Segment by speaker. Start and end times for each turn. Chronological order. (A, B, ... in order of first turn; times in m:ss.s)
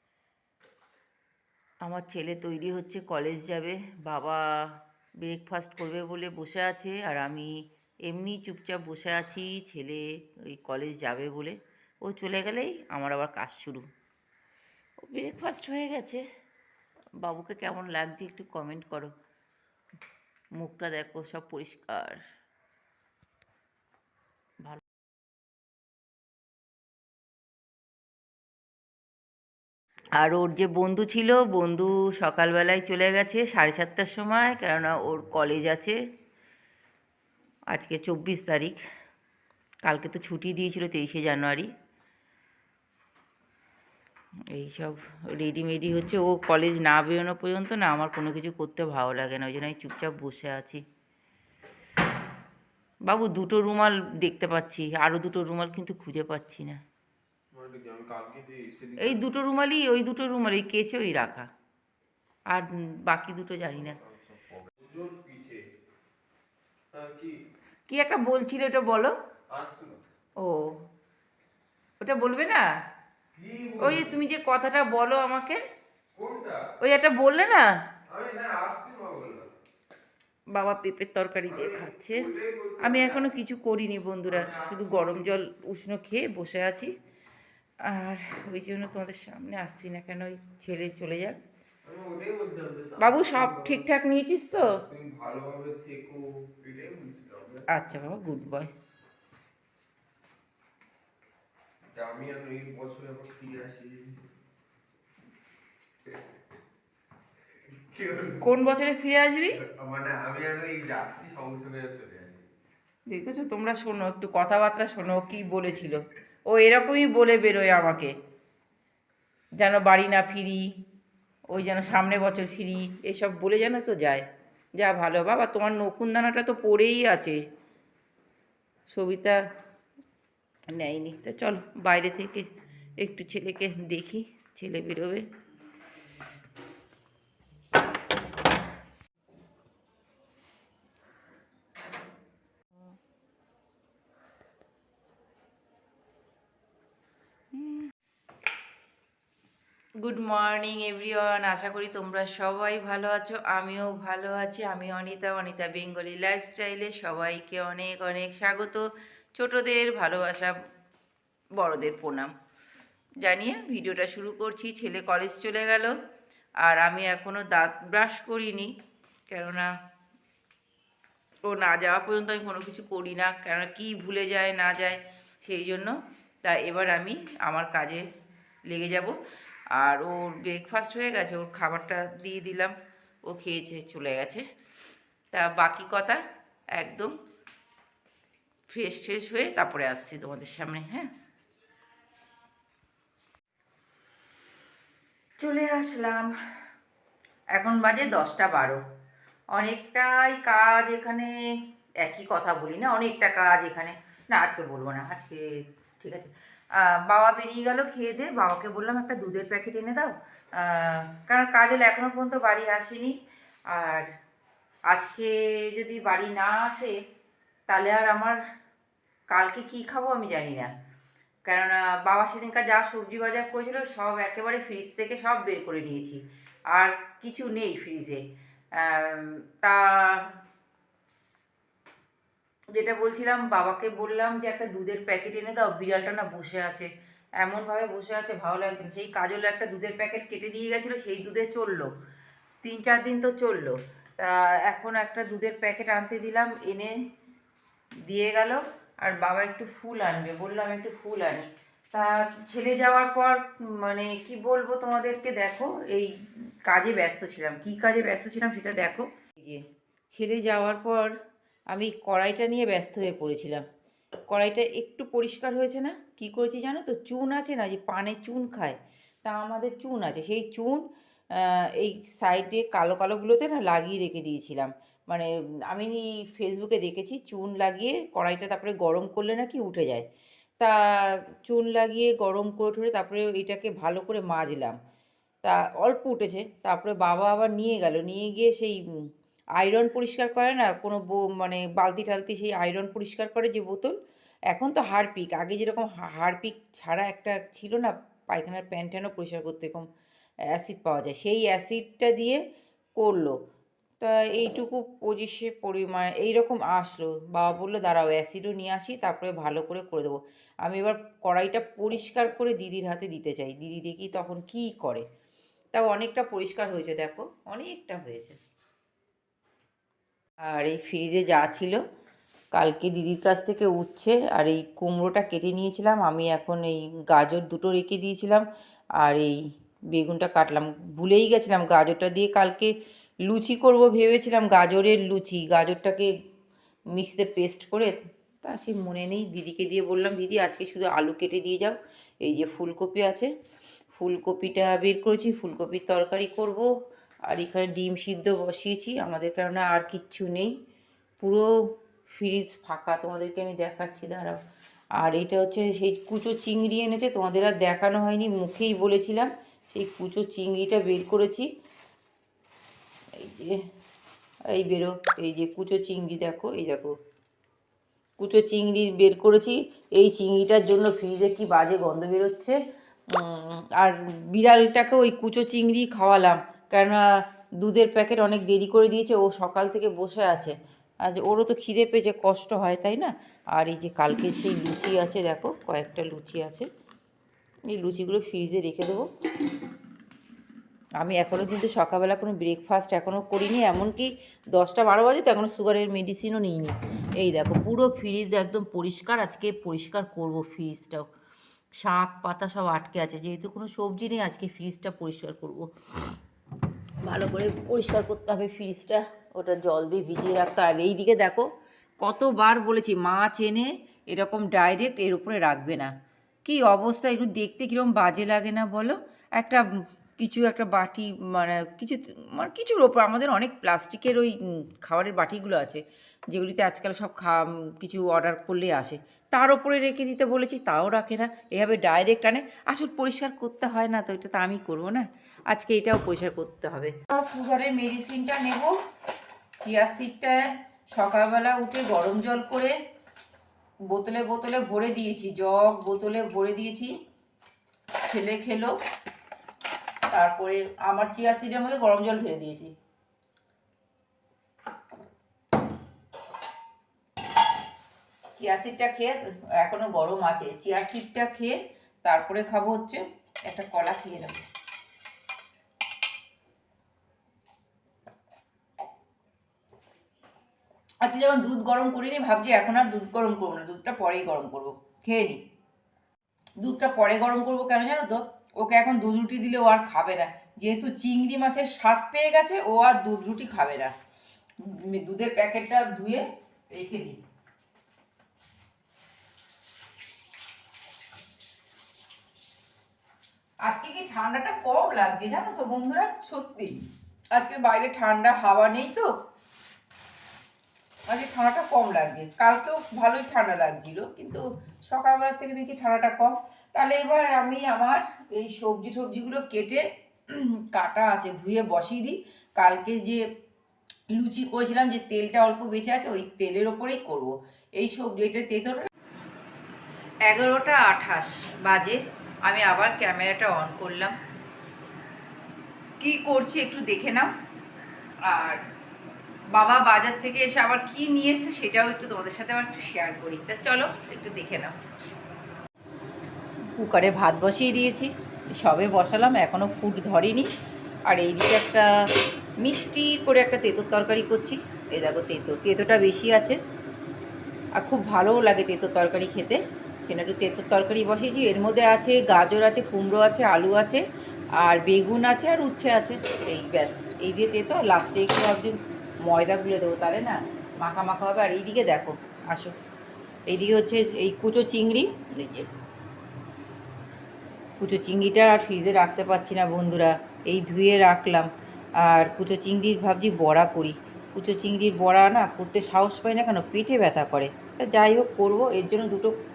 0:01.8-0:07.5 A
0:08.1-0:13.8 A
0:15.0-0:16.2 A
0:17.2-0:19.1 A
0:20.6-0:22.2 A
0:30.2-0:36.0 A
0:37.7-0:38.8 A
0:39.9-0:41.7 A
0:44.5-0:50.8 A
0:53.1-0:56.8 A
0:57.5-0:59.2 B
0:59.0-1:01.5 A
1:02.5-1:04.0 A
1:04.0-1:05.6 B
1:06.9-1:07.4 B
1:07.9-1:09.2 A
1:09.5-1:10.0 B
1:10.4-1:10.7 A
1:12.0-1:12.6 A
1:13.3-1:14.1 B
1:13.8-1:15.6 A
1:16.2-1:16.7 B
1:16.8-1:17.7 A
1:18.1-1:19.5 B
1:20.5-1:22.3 A
1:21.5-1:23.3 B
1:22.8-1:26.9 A
1:24.3-1:25.0 B
1:27.9-1:31.4 A
1:31.8-1:33.8 B
1:33.0-1:34.8 A
1:34.8-1:37.7 B
1:37.7-1:38.7 A
1:41.9-1:44.2 B
1:47.7-1:48.4 B
1:48.4-1:49.6 A
1:49.6-1:52.5 B
1:53.1-1:58.1 A
1:59.6-2:00.7 A
2:01.5-2:04.2 A
2:04.8-2:07.4 A
2:08.9-2:09.4 A
2:10.7-2:12.5 A
2:13.0-2:15.2 A
2:27.5-2:27.9 A
2:30.0-2:38.8 A
2:39.4-2:40.6 A
2:41.6-2:42.3 A
2:43.2-2:45.9 A
2:46.6-2:48.7 A
2:49.3-2:49.7 A
2:51.5-2:58.0 A
2:58.7-2:59.2 A
2:59.8-3:02.7 A
3:03.3-3:04.4 A
3:05.3-3:06.2 A
3:06.8-3:07.1 A
3:08.7-3:11.1 A
3:15.4-3:16.3 A
3:17.6-3:18.8 A
3:19.5-3:25.4 A
3:26.0-3:33.2 A
3:33.7-3:34.1 A
3:34.9-3:37.0 A
3:37.7-3:38.4 A
3:39.3-3:40.7 A
3:41.5-3:48.2 A
3:48.8-3:50.4 A
3:52.7-4:01.9 A
4:02.6-4:07.0 A
4:08.1-4:21.2 A
4:21.7-4:23.6 A
4:24.3-4:40.1 A
4:40.6-4:44.8 A
4:45.4-4:48.8 A
4:49.6-4:54.0 A
4:54.5-4:59.9 A
5:00.5-5:02.4 A
5:03.0-5:03.4 A
5:04.0-5:15.1 A
5:15.7-5:18.4 A
5:20.5-5:21.8 A
5:22.5-5:28.5 A
5:29.0-5:29.4 A
5:29.9-5:32.7 A
5:33.3-5:36.1 A
5:36.9-5:43.3 A
5:44.0-5:46.7 A
5:47.3-5:50.5 A
5:51.2-5:51.5 A
5:52.1-5:54.4 A
5:55.0-6:01.5 A
6:03.2-6:03.6 A
6:04.5-6:06.9 A
6:08.2-6:12.6 A
6:13.1-6:26.7 A
6:27.7-6:29.1 A
6:31.0-6:41.1 A
6:41.8-6:45.7 A
6:47.0-6:51.5 A
6:52.0-6:55.9 A
6:56.4-6:59.6 A
7:00.2-7:18.8 A
7:19.6-7:20.4 A
7:21.0-7:22.7 A
7:23.9-7:26.9 A
7:28.0-7:28.7 A
7:30.1-7:32.7 A
7:38.4-7:44.5 A
7:51.0-7:55.4 A
7:56.6-8:03.9 A
8:04.6-8:07.2 A
8:13.6-8:19.1 A
8:21.1-8:33.2 A
8:34.2-8:38.9 A
8:40.3-8:44.2 A
8:46.0-8:47.3 A
8:48.3-8:48.6 A
8:49.6-8:54.8 A
8:56.8-9:00.5 A
9:01.1-9:02.1 A
9:02.6-9:06.6 A
9:07.8-9:14.0 A
9:14.6-9:22.7 A
9:23.5-9:25.7 A
9:27.8-9:31.5 A
9:32.0-9:39.3 A